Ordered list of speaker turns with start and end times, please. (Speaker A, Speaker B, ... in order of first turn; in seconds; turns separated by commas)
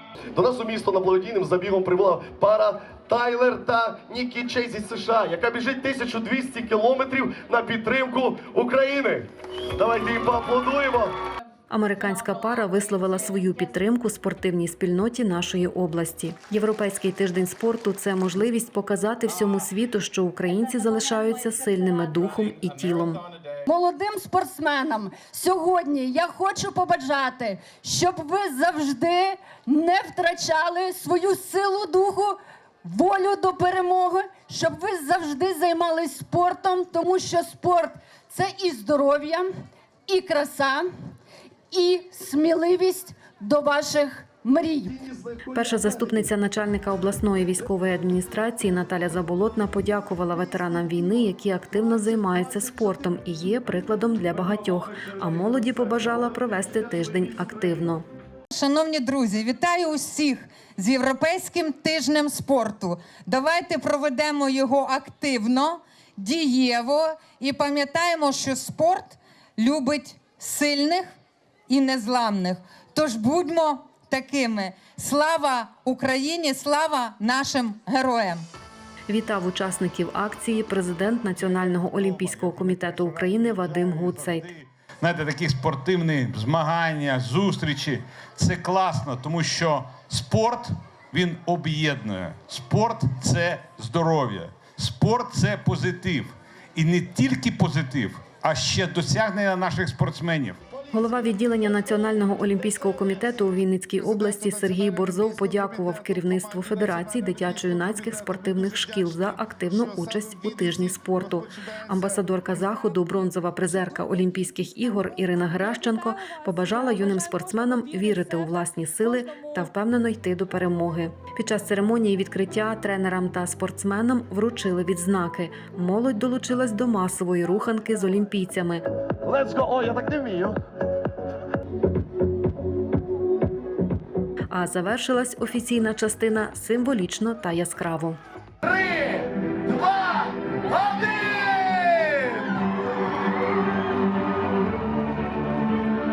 Speaker A: 0.3-11.2, Speaker B: 11.7-23.2, Speaker C: 23.7-39.5, Speaker C: 40.1-40.9, Speaker C: 41.7-45.0, Speaker B: 45.4-58.0, Speaker D: 58.5-71.1, Speaker D: 71.7-78.5, Speaker B: 79.1-84.5, Speaker E: 81.4-100.6, Speaker B: 100.9-128.8, Speaker C: 116.2-117.1, Speaker A: 129.2-130.6, Speaker B: 134.5-138.2, Speaker A: 138.7-142.5